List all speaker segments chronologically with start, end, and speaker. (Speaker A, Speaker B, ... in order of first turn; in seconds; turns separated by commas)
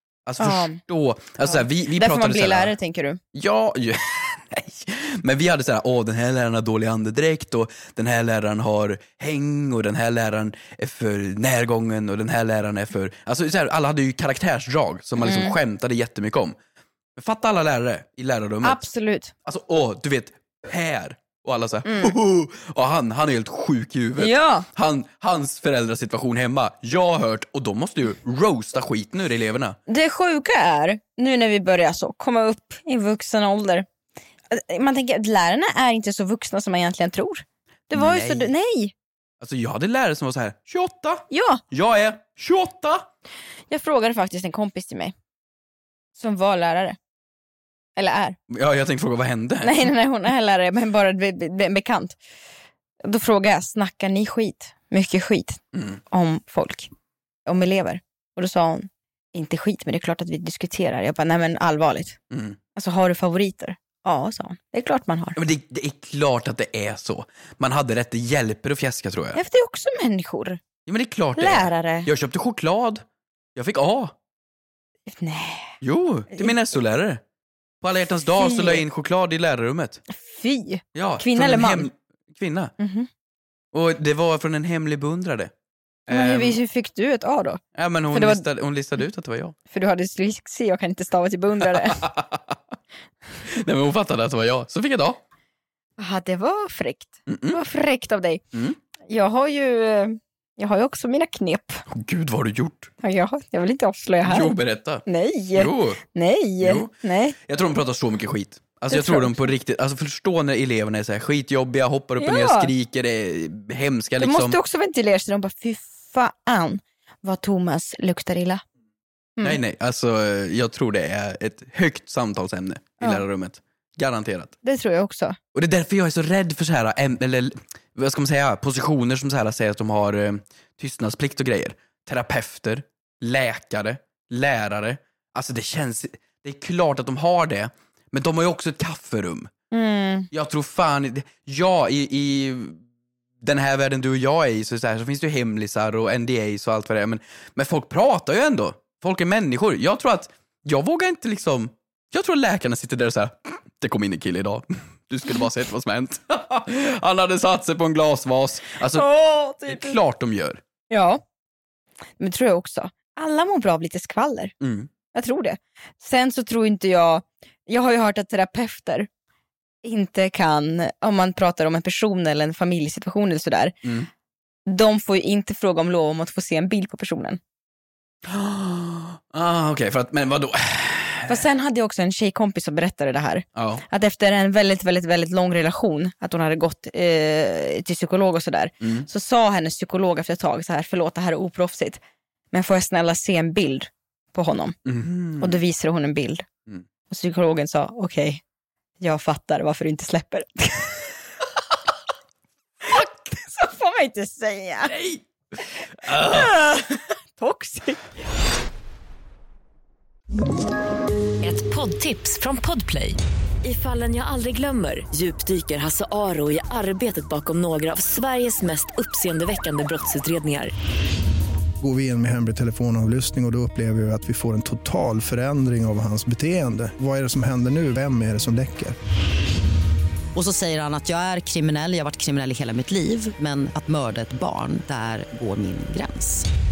Speaker A: 0.3-2.8, Speaker B: 0.4-0.8, Speaker B: 1.5-3.2, Speaker A: 3.3-16.6, Speaker B: 15.2-15.6, Speaker A: 17.2-18.9, Speaker B: 18.6-19.3, Speaker A: 19.4-29.8, Speaker B: 21.9-22.1, Speaker B: 24.2-24.7, Speaker B: 29.9-33.9, Speaker B: 34.5-38.9, Speaker A: 37.9-38.5, Speaker A: 39.4-43.1, Speaker B: 41.3-41.6, Speaker B: 43.7-45.1, Speaker B: 46.2-47.0, Speaker B: 48.0-48.4, Speaker A: 48.5-49.9, Speaker B: 49.6-52.2, Speaker B: 53.0-56.9, Speaker A: 55.7-56.0, Speaker B: 57.5-62.2, Speaker A: 62.3-62.6, Speaker B: 62.8-65.4, Speaker A: 65.4-69.4, Speaker B: 69.3-70.6, Speaker A: 70.9-73.0, Speaker B: 71.4-72.1, Speaker A: 73.5-74.2, Speaker B: 75.1-75.8, Speaker A: 75.8-77.2, Speaker A: 77.8-80.0, Speaker B: 78.4-78.8, Speaker B: 80.1-81.9, Speaker A: 81.0-82.7, Speaker B: 82.8-83.1, Speaker A: 83.7-85.5, Speaker A: 86.1-86.6, Speaker B: 86.1-87.6, Speaker A: 87.8-89.5, Speaker B: 88.1-88.5, Speaker B: 89.7-92.0, Speaker A: 91.6-92.6, Speaker A: 93.5-95.2, Speaker B: 96.0-98.4, Speaker A: 97.3-97.6, Speaker B: 99.1-101.8, Speaker A: 101.9-102.9, Speaker B: 103.0-107.4, Speaker A: 104.2-105.0, Speaker A: 105.5-106.0, Speaker A: 106.6-106.9, Speaker A: 107.4-114.6, Speaker B: 108.9-109.5, Speaker B: 112.2-112.7, Speaker B: 114.2-118.6, Speaker A: 119.4-124.5, Speaker B: 124.6-125.4, Speaker A: 125.5-139.5, Speaker B: 139.7-140.3, Speaker A: 140.3-142.8, Speaker A: 143.4-159.1, Speaker B: 158.9-160.0, Speaker A: 159.7-160.6, Speaker B: 160.9-161.2, Speaker B: 162.2-164.5, Speaker A: 164.6-164.9, Speaker B: 165.1-169.1, Speaker B: 169.8-173.8, Speaker B: 174.7-177.4, Speaker A: 178.2-181.4, Speaker B: 181.3-192.0, Speaker A: 183.6-183.8, Speaker A: 188.8-189.1, Speaker B: 192.5-194.8, Speaker A: 194.8-195.6, Speaker B: 195.4-196.5, Speaker B: 197.1-198.4, Speaker B: 199.0-201.1, Speaker B: 202.8-205.0, Speaker A: 204.8-205.2, Speaker A: 206.0-206.6, Speaker B: 206.1-208.0, Speaker C: 211.4-220.7, Speaker D: 221.8-229.0, Speaker E: 230.3-236.5